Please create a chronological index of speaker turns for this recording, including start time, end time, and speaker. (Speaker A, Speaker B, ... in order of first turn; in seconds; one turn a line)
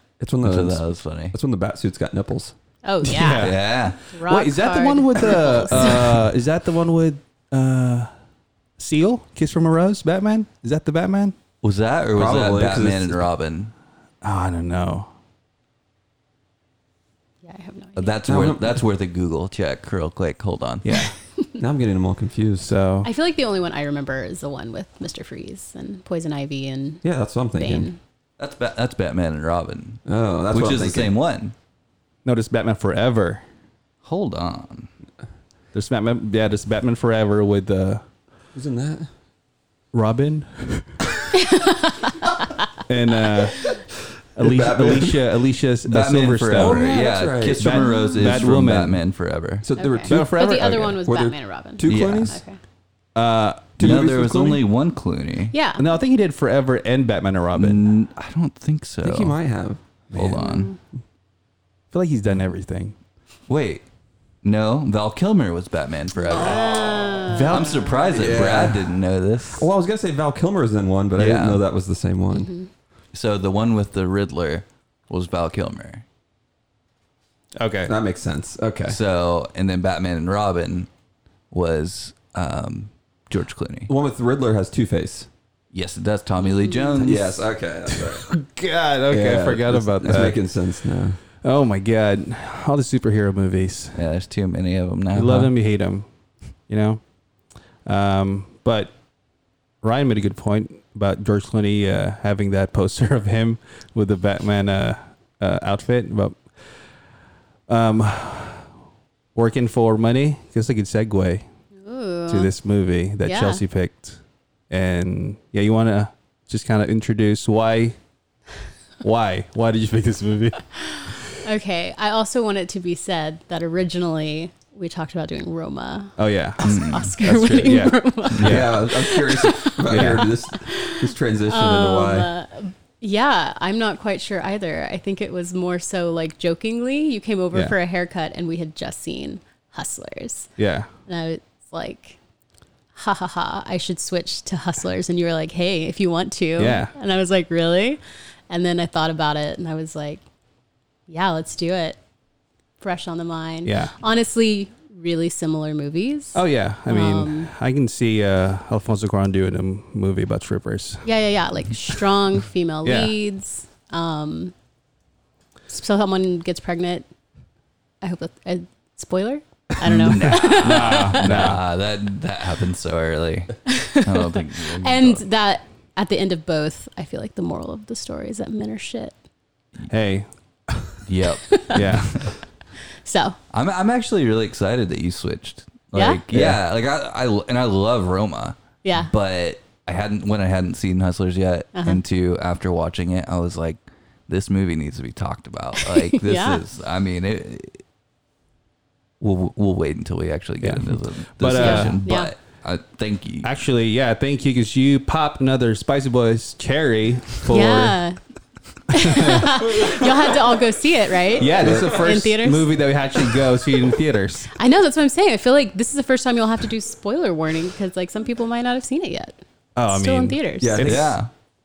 Speaker A: 0.2-2.5
Speaker B: 0.4-1.3
Speaker C: 2.8-3.6
Speaker D: 3.0-8.1
Speaker B: 3.4-4.0
Speaker C: 4.1-5.9
Speaker B: 5.7-6.1
Speaker D: 8.8-11.3
Speaker B: 11.6-13.7
Speaker A: 12.1-13.2
Speaker D: 14.2-15.1
Speaker C: 17.4-18.1
Speaker B: 17.9-21.1
Speaker A: 18.3-18.8
Speaker D: 20.8-21.1
Speaker A: 21.6-22.7
Speaker D: 22.6-23.1
Speaker C: 23.0-27.0
Speaker A: 27.0-27.9
Speaker C: 27.5-28.0
Speaker B: 28.4-31.5
Speaker A: 30.1-31.1
Speaker D: 32.2-33.4
Speaker B: 34.0-34.9
Speaker D: 35.7-38.0
Speaker A: 38.5-39.1
Speaker D: 39.9-41.0
Speaker C: 41.3-42.2
Speaker D: 42.9-43.8
Speaker D: 44.4-46.8
Speaker A: 44.4-45.3
Speaker B: 45.9-49.6
Speaker C: 46.6-47.0
Speaker A: 46.7-47.8
Speaker D: 47.6-49.0
Speaker C: 47.8-48.2
Speaker A: 49.6-52.4
Speaker C: 49.7-52.6
Speaker D: 50.1-50.8
Speaker B: 51.8-52.3
Speaker D: 53.1-53.9
Speaker A: 53.8-54.6
Speaker B: 53.8-55.5
Speaker C: 55.5-55.8
Speaker D: 55.8-57.8
Speaker B: 57.5-59.4
Speaker A: 59.0-59.8
Speaker B: 60.1-60.7
Speaker D: 60.1-60.4
Speaker C: 60.4-60.8
Speaker D: 61.9-63.0
Speaker B: 63.5-63.8
Speaker B: 64.4-66.7
Speaker C: 66.2-67.9
Speaker A: 66.3-67.2
Speaker D: 67.2-67.9
Speaker B: 67.5-69.7
Speaker A: 68.1-69.0
Speaker A: 69.5-72.5
Speaker B: 71.2-71.6
Speaker C: 72.3-72.7
Speaker B: 73.1-76.0
Speaker D: 77.6-77.9
Speaker A: 77.8-79.0
Speaker B: 78.9-80.9
Speaker B: 81.5-83.9
Speaker A: 83.9-85.3
Speaker B: 85.7-87.5
Speaker C: 86.4-86.8
Speaker A: 87.0-88.3
Speaker D: 88.1-90.4
Speaker A: 89.1-91.2
Speaker D: 91.4-94.0
Speaker B: 93.9-95.5
Speaker D: 95.1-96.1
Speaker D: 96.7-97.0
Speaker D: 97.8-98.9
Speaker D: 99.8-106.5
Speaker D: 107.7-108.6
Speaker D: 109.3-111.5
Speaker C: 111.8-112.5
Speaker D: 112.3-114.2
Speaker C: 113.2-113.6
Speaker D: 114.7-118.0
Speaker D: 119.0-120.7
Speaker C: 120.8-140.5
Speaker D: 126.2-128.8
Speaker B: 126.6-127.1
Speaker A: 128.4-132.3
Speaker D: 129.9-130.3
Speaker D: 140.6-140.9
Speaker C: 141.1-142.2
Speaker C: 142.9-150.2
Speaker D: 146.6-146.9
Speaker C: 151.1-152.0
Speaker C: 152.8-157.5
Speaker D: 153.6-153.9
Speaker D: 156.3-161.1
Speaker C: 161.0-164.5
Speaker D: 162.8-163.1
Speaker C: 165.7-167.1
Speaker C: 168.0-171.4
Speaker B: 169.8-175.2
Speaker D: 170.0-171.6
Speaker C: 173.7-179.1
Speaker D: 179.9-181.0
Speaker B: 181.0-182.3
Speaker C: 181.5-181.8
Speaker D: 181.7-182.3
Speaker C: 183.0-183.4
Speaker B: 183.5-197.8
Speaker C: 185.9-186.2
Speaker D: 186.3-186.6
Speaker C: 188.8-189.1
Speaker C: 191.7-192.0
Speaker C: 195.8-196.6
Speaker B: 199.2-203.5
Speaker D: 200.6-202.0
Speaker C: 201.5-202.3
Speaker D: 203.4-208.0
Speaker C: 207.5-208.2
Speaker C: 208.9-212.7
Speaker D: 208.9-210.1
Speaker D: 211.4-214.6
Speaker A: 211.4-212.1
Speaker C: 214.5-220.8
Speaker D: 219.8-221.2
Speaker A: 220.6-221.2
Speaker B: 220.8-221.3